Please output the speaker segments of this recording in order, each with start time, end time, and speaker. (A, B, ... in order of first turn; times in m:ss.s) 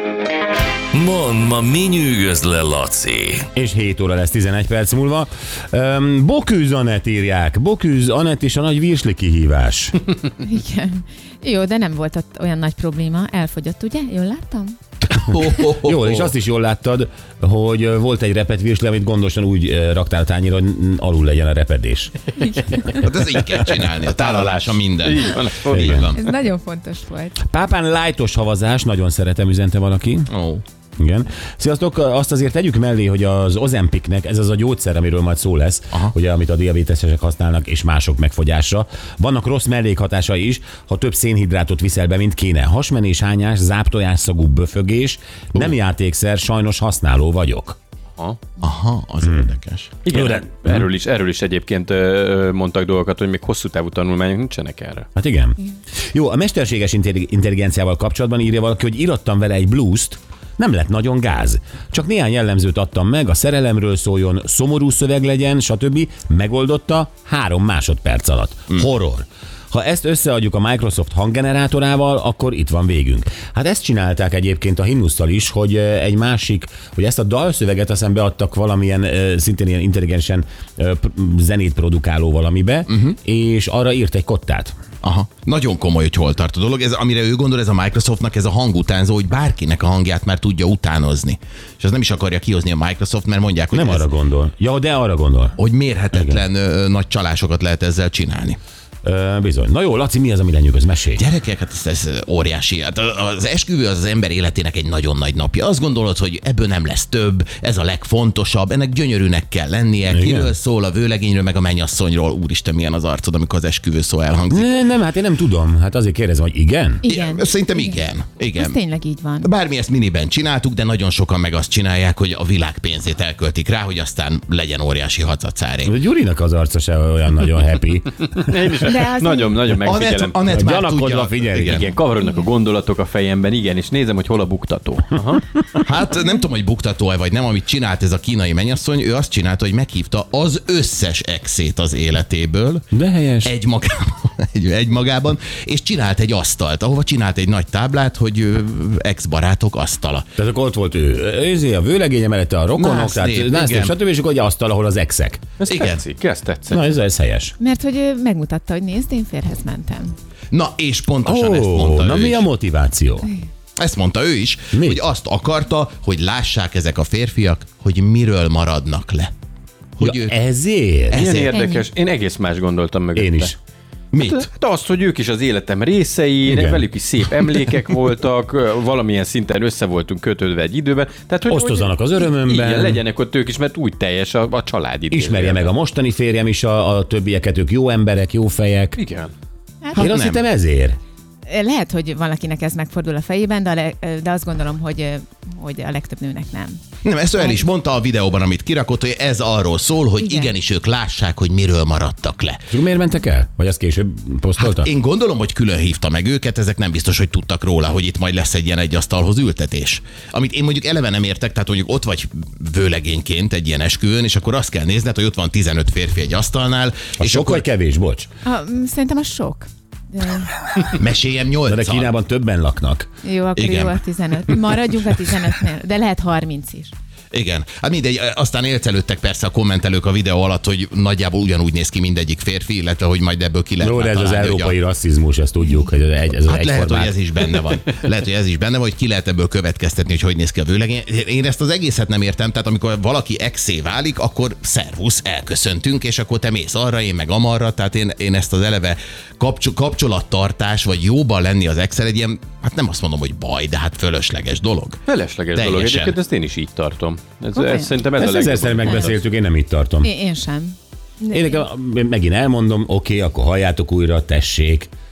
0:00.9-0:03.5 A
0:03.5-0:10.0 B
0:10.4-0:14.8 C
0:15.0-0:16.3 D
0:15.7-0:22.3 B
0:22.9-0:26.2 D
0:23.7-0:26.1 E
0:25.7-0:26.1 B
0:26.2-0:27.4 C
0:27.4-0:30.3 B
0:30.3-0:30.6 D
0:31.0-0:47.8 B
0:48.6-0:50.0 D
0:50.0-0:55.1 E
0:50.1-0:50.9 B
0:55.1-0:55.6 B
0:56.1-1:24.7 B
1:22.9-1:23.1 D
1:25.0-1:34.0 D
1:33.7-1:35.6 B
1:35.6-1:38.6 D
1:36.1-1:36.4 B
1:39.0-1:41.2 B
1:41.2-1:54.8 D
1:50.1-1:50.5 B
1:54.5-1:57.0 B
1:57.0-1:58.0 C
1:57.0-1:58.8 D
1:58.6-1:59.5 C
1:59.4-2:05.9 D
2:05.8-2:08.7 B
2:08.4-2:10.4 E
2:08.8-2:09.5 C
2:09.8-2:11.9 D
2:10.5-2:11.8 B
2:11.6-2:15.4 E
2:15.8-2:22.9 D
2:22.9-2:23.5 B
2:23.4-2:30.2 D
2:30.4-2:35.4 B
2:32.8-2:34.0 D
2:35.6-2:36.8 E
2:35.7-2:36.0 D
2:36.7-2:37.5 B
2:37.6-2:40.1 C
2:40.5-2:42.4 D
2:41.2-2:43.3 B
2:43.8-2:49.3 D
2:44.7-2:45.0 B
2:50.0-2:50.4 D
2:50.0-2:51.2 B
2:51.1-2:51.5 D
2:51.1-2:53.5 E
2:51.5-2:51.8 C
2:53.2-2:53.5 B
2:54.1-2:54.4 D
2:54.2-3:05.7 E
2:56.5-2:56.9 B
3:01.5-3:03.0 B
3:05.1-3:09.0 B
3:09.0-3:09.3 E
3:09.8-3:10.1 C
3:09.9-3:11.0 B
3:10.0-3:10.4 D
3:11.5-3:16.8 C
3:17.0-3:22.6 D
3:20.2-3:20.5 C
3:22.7-3:24.9 B
3:24.6-3:37.6 D
3:37.2-3:38.3 B
3:38.4-3:40.8 C
3:40.9-3:42.1 D
3:41.7-3:43.1 B
3:43.2-3:46.9 C
3:43.5-3:44.0 D
3:47.3-3:54.8 D
3:53.8-3:57.1 B
3:56.4-4:15.0 D
4:15.1-4:19.2 E
4:15.5-4:16.2 D
4:17.6-4:18.0 C
4:18.2-4:20.1 B
4:20.0-4:21.6 C
4:21.3-4:24.9 B